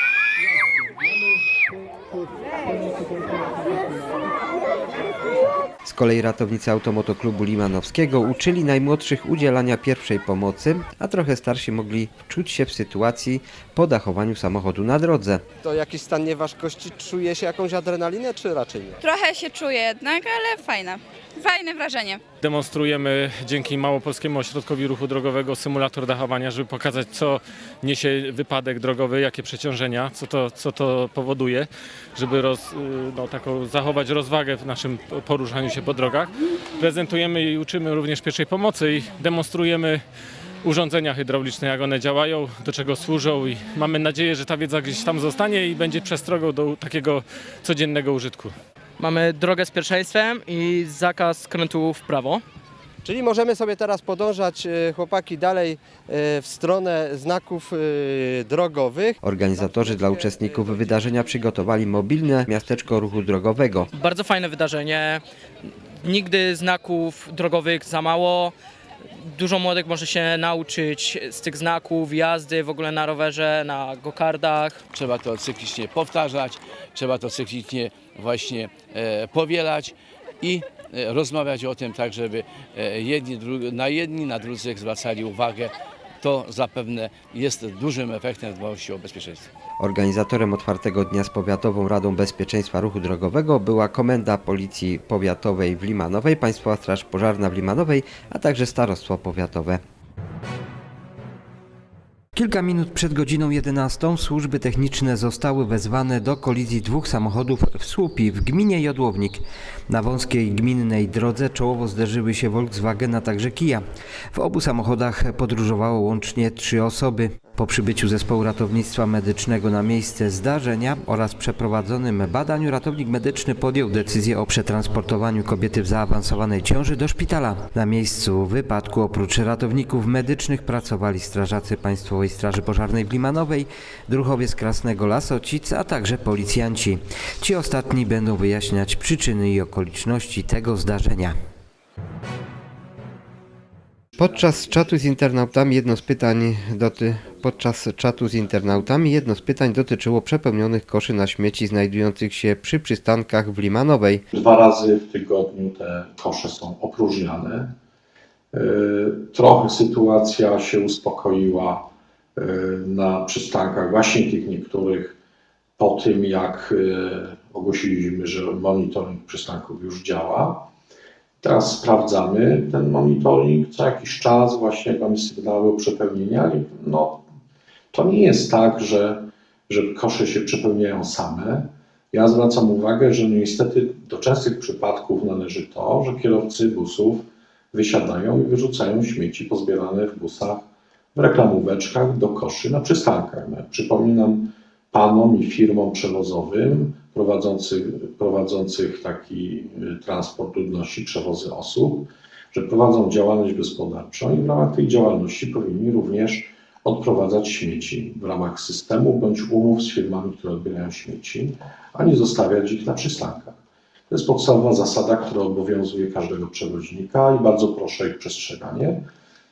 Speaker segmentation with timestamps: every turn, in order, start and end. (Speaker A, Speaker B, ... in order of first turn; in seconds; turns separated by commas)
Speaker A: 5.8-15.4, Speaker B: 15.6-19.0, Speaker C: 19.0-22.2, Speaker D: 22.4-40.0, Speaker D: 40.6-48.5, Speaker E: 49.0-52.4, Speaker B: 53.0-59.2, Speaker A: 59.2-63.9, Speaker E: 63.9-65.2, Speaker E: 66.0-68.5, Speaker E: 69.2-74.8, Speaker F: 74.9-89.5, Speaker A: 89.8-99.8, Speaker A: 102.3-141.3, Speaker A: 144.2-154.2, Speaker G: 154.3-157.7, Speaker G: 158.5-165.1, Speaker G: 165.8-170.6, Speaker G: 171.4-177.2, Speaker G: 177.9-190.6, Speaker G: 191.2-213.5, Speaker G: 214.1-219.0